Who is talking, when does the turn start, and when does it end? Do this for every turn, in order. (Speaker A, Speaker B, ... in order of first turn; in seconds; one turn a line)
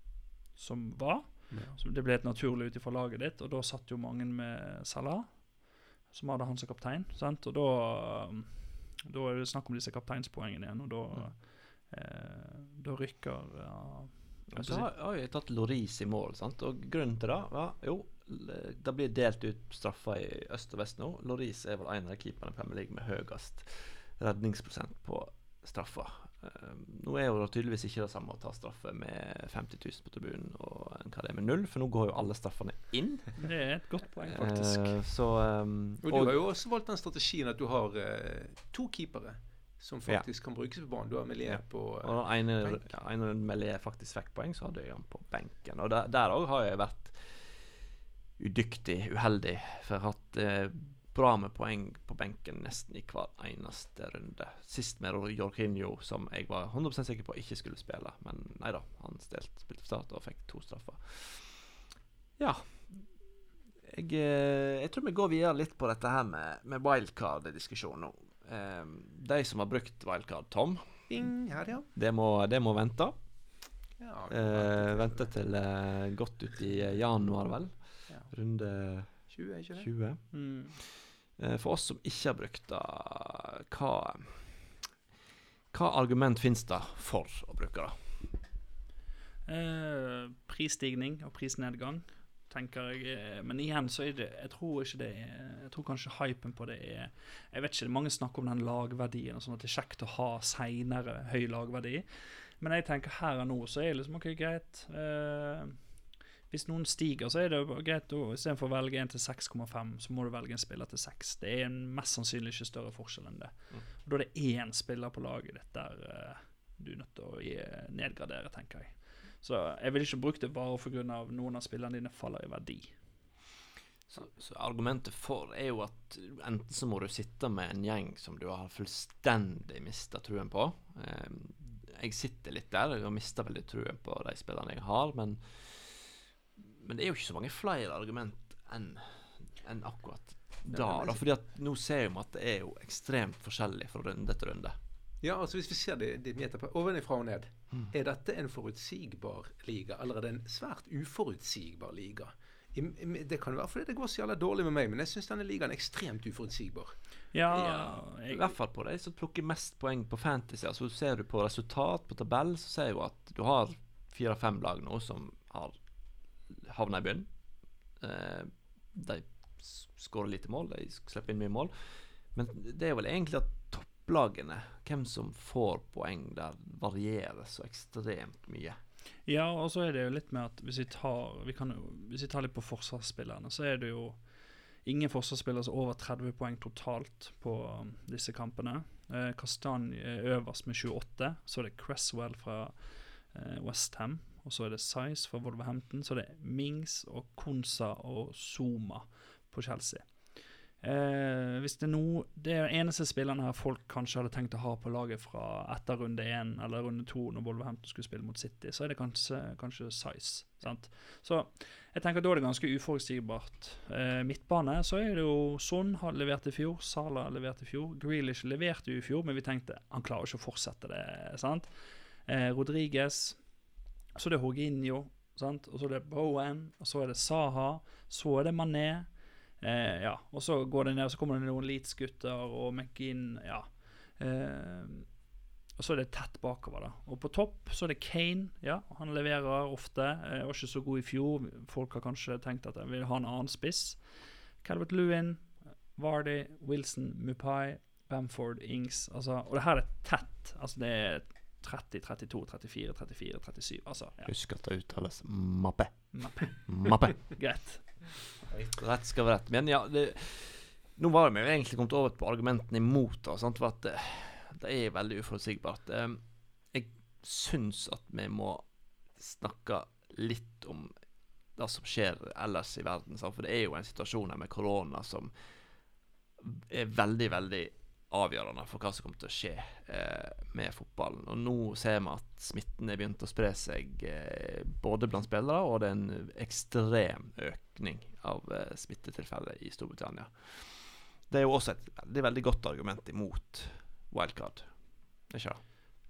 Speaker A: 0.6-14.9
Speaker B: 1.5-1.8
Speaker C: 14.5-33.7
Speaker A: 33.4-35.1
Speaker C: 34.3-36.4
Speaker B: 36.0-42.9
Speaker C: 41.5-47.7
Speaker C: 48.4-61.7
Speaker C: 62.4-63.2
Speaker C: 63.8-71.3
Speaker B: 71.1-71.9
Speaker C: 71.9-73.4
Speaker B: 74.0-75.5
Speaker C: 74.3-84.7
Speaker B: 78.1-78.3
Speaker B: 79.1-79.9
Speaker A: 80.3-80.8
Speaker C: 85.7-88.3
Speaker A: 89.5-105.9
Speaker A: 106.5-123.1
Speaker C: 124.1-144.8
Speaker B: 140.7-141.2
Speaker B: 145.2-156.9
Speaker A: 157.3-158.5
Speaker C: 157.5-165.9
Speaker C: 166.5-167.4
Speaker C: 167.9-178.8
Speaker A: 179.2-235.2
Speaker A: 235.7-254.3
Speaker C: 254.2-257.2
Speaker A: 256.1-258.3
Speaker C: 258.6-270.9
Speaker C: 271.5-275.3
Speaker C: 276.4-295.6